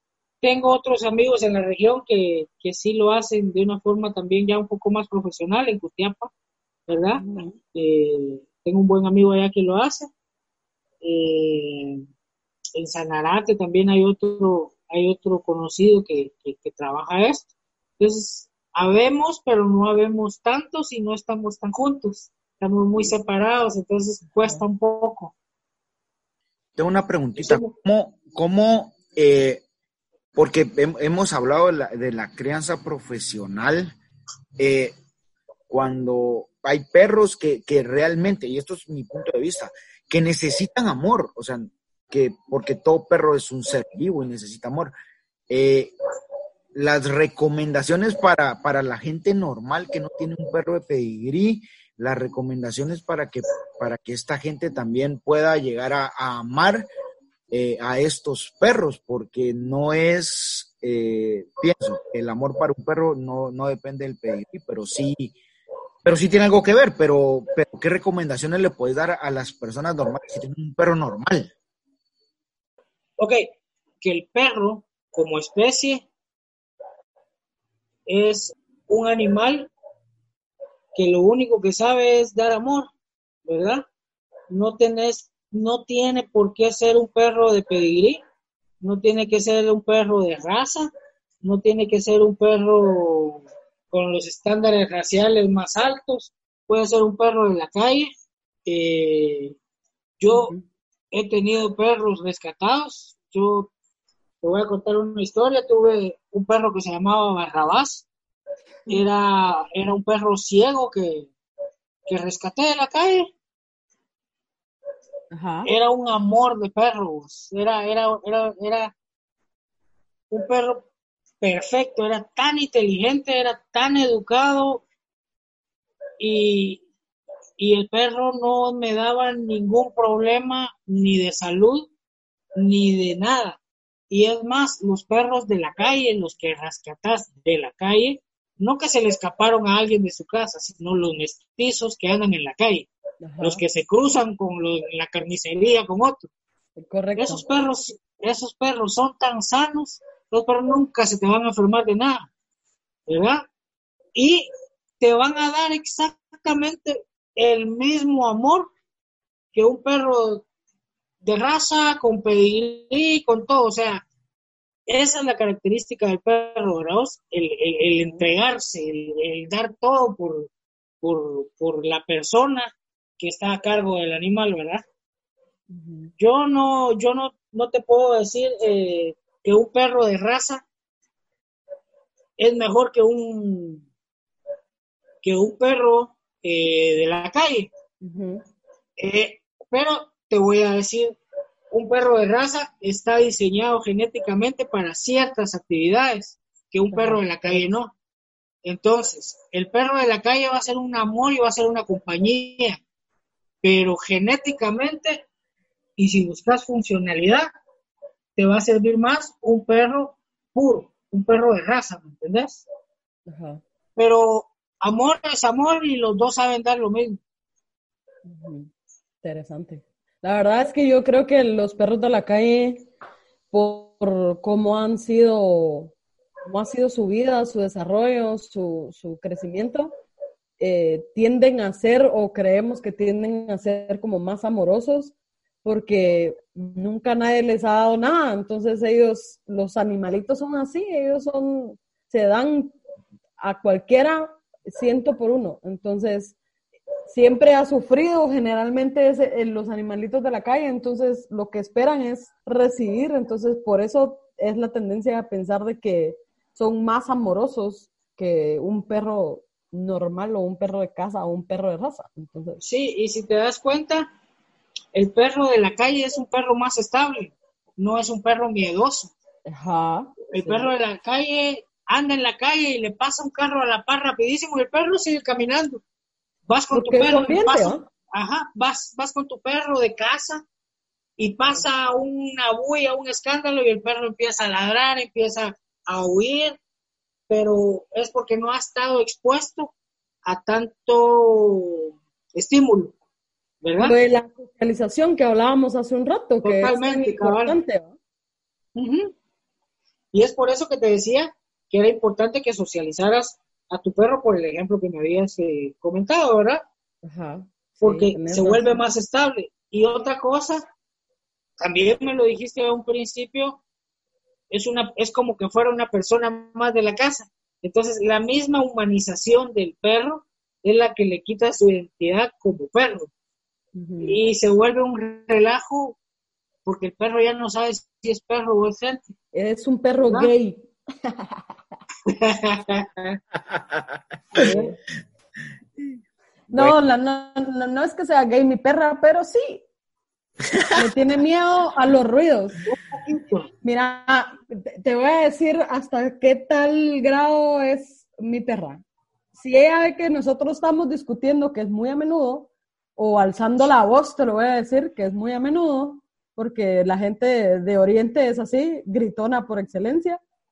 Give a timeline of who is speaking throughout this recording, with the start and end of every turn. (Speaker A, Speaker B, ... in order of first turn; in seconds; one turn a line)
Speaker A: 0.4-6.3
Speaker A: 6.9-10.1
Speaker B: 7.2-7.6
Speaker A: 11.0-12.0
Speaker A: 12.7-17.5
Speaker A: 18.0-25.3
Speaker C: 26.8-29.6
Speaker A: 27.4-27.7
Speaker C: 30.3-33.9
Speaker C: 34.6-34.9
Speaker C: 35.7-44.9
Speaker C: 45.5-45.9
Speaker C: 46.7-56.9
Speaker C: 57.5-65.3
Speaker C: 66.0-71.5
Speaker A: 73.2-73.5
Speaker A: 74.0-76.0
Speaker A: 78.0-79.7
Speaker A: 80.9-82.9
Speaker A: 83.5-83.9
Speaker A: 84.5-88.2
Speaker A: 88.8-90.9
Speaker A: 91.4-98.1
Speaker A: 98.7-99.5
Speaker A: 100.2-100.5
Speaker B: 100.3-100.6
Speaker A: 101.1-103.7
Speaker A: 104.4-108.0
Speaker A: 108.9-111.3
Speaker A: 112.0-113.3
Speaker B: 115.3-115.7
Speaker A: 115.6-118.9
Speaker A: 120.3-120.8
Speaker A: 121.4-124.8
Speaker A: 126.2-126.8
Speaker A: 127.6-131.9
Speaker A: 132.6-133.6
Speaker A: 134.1-142.9
Speaker B: 143.2-143.6
Speaker A: 143.4-146.3
Speaker B: 146.8-147.4
Speaker A: 147.2-152.3
Speaker A: 153.1-153.4
Speaker A: 154.1-154.5
Speaker A: 155.0-158.7
Speaker A: 159.5-160.4
Speaker A: 161.2-164.0
Speaker A: 164.9-170.5
Speaker A: 171.0-174.8
Speaker B: 175.7-176.1
Speaker A: 176.2-180.6
Speaker A: 182.4-183.8
Speaker A: 185.2-187.7
Speaker B: 188.0-188.4
Speaker A: 189.0-191.2
Speaker A: 191.7-197.9
Speaker B: 196.9-197.6
Speaker A: 198.6-202.8
Speaker A: 203.6-205.2
Speaker A: 206.0-207.5
Speaker A: 208.4-212.6
Speaker B: 213.3-213.6
Speaker A: 214.0-217.2
Speaker B: 218.2-218.7
Speaker B: 219.2-222.9
Speaker B: 223.5-225.9
Speaker B: 226.5-229.9
Speaker B: 230.6-235.1
Speaker B: 235.6-242.8
Speaker B: 243.4-246.4
Speaker B: 247.1-262.6
Speaker A: 262.6-264.1
Speaker A: 264.9-269.1
Speaker B: 269.5-270.7
Speaker A: 270.3-275.8
Speaker A: 276.5-280.4
Speaker B: 276.7-277.8
Speaker A: 281.2-286.6
Speaker A: 287.3-289.7
Speaker A: 290.2-292.9
Speaker A: 293.6-293.9
Speaker B: 293.8-297.9
Speaker A: 296.4-297.6
Speaker A: 298.8-299.1
Speaker A: 300.1-306.6
Speaker B: 307.0-308.8
Speaker A: 307.8-310.6
Speaker A: 311.6-313.6
Speaker A: 314.5-323.1
Speaker B: 323.7-324.2
Speaker A: 324.0-325.9
Speaker A: 326.6-329.0
Speaker B: 329.3-331.3
Speaker A: 332.1-333.2
Speaker C: 333.6-333.8
Speaker A: 334.3-334.7
Speaker B: 334.3-334.7
Speaker B: 336.5-339.6
Speaker B: 340.7-342.6
Speaker A: 342.6-343.5
Speaker B: 343.6-348.8
Speaker B: 349.4-360.2